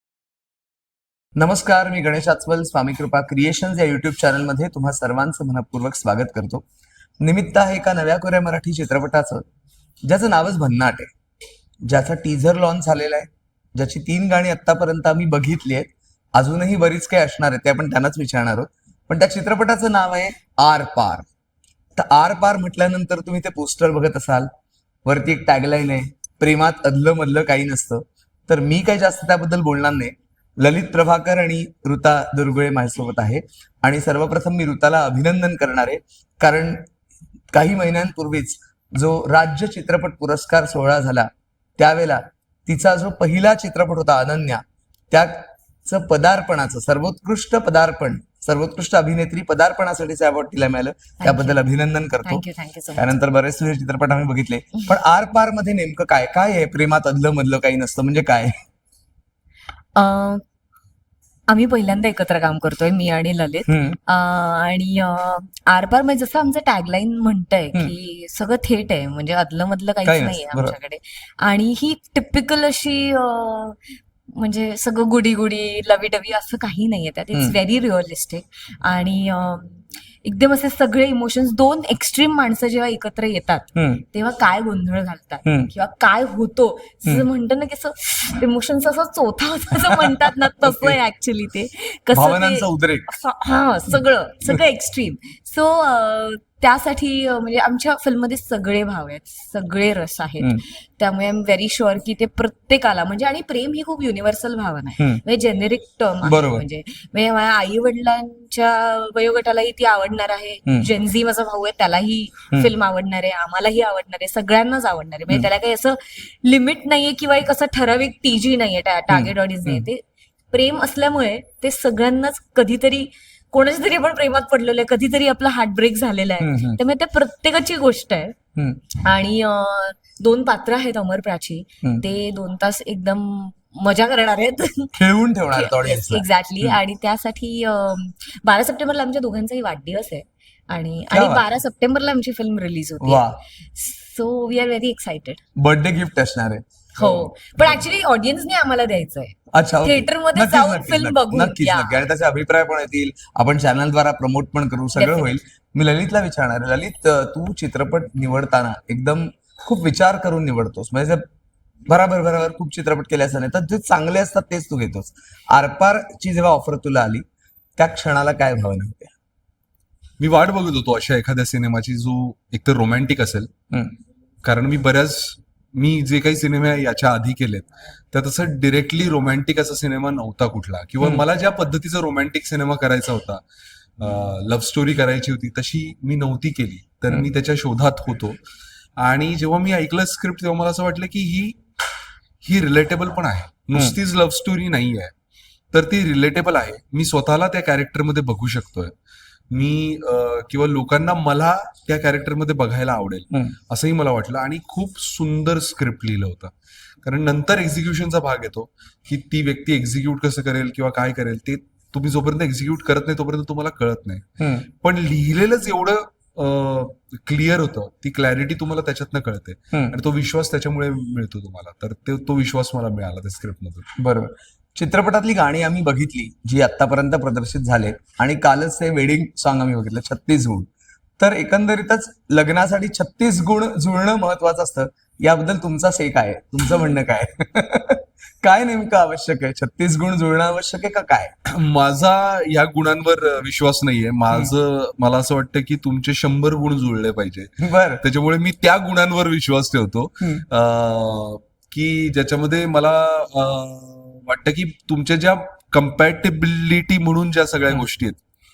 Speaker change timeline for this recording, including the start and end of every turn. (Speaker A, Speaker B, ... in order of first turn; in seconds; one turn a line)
Speaker A: 1.4-6.6
Speaker A: 7.2-9.4
Speaker A: 10.1-11.1
Speaker A: 11.8-21.2
Speaker A: 21.9-24.5
Speaker A: 25.0-36.8
Speaker A: 37.5-58.5
Speaker B: 51.2-51.6
Speaker B: 52.2-53.1
Speaker B: 59.9-60.4
Speaker B: 61.5-128.4
Speaker A: 63.7-64.0
Speaker A: 70.0-70.8
Speaker A: 83.8-84.0
Speaker A: 85.4-85.7
Speaker A: 89.8-91.0
Speaker A: 92.1-93.1
Speaker A: 93.9-94.6
Speaker A: 106.2-106.6
Speaker A: 119.1-119.9
Speaker A: 126.4-126.8
Speaker A: 128.6-128.8
Speaker B: 129.0-134.9
Speaker A: 134.9-136.8
Speaker B: 135.5-145.4
Speaker A: 141.1-141.4
Speaker A: 143.0-143.3
Speaker A: 145.6-147.3
Speaker B: 147.0-152.0
Speaker A: 149.5-161.2
Speaker B: 154.9-155.4
Speaker A: 161.9-167.2
Speaker A: 167.8-169.1
Speaker C: 170.2-173.5
Speaker C: 174.4-183.4
Speaker C: 184.0-188.4
Speaker C: 189.0-191.6
Speaker C: 192.4-195.1
Speaker C: 195.7-198.9
Speaker C: 199.5-206.5
Speaker C: 207.0-223.9
Speaker A: 224.0-241.3
Speaker C: 241.5-258.2
Speaker A: 247.6-248.0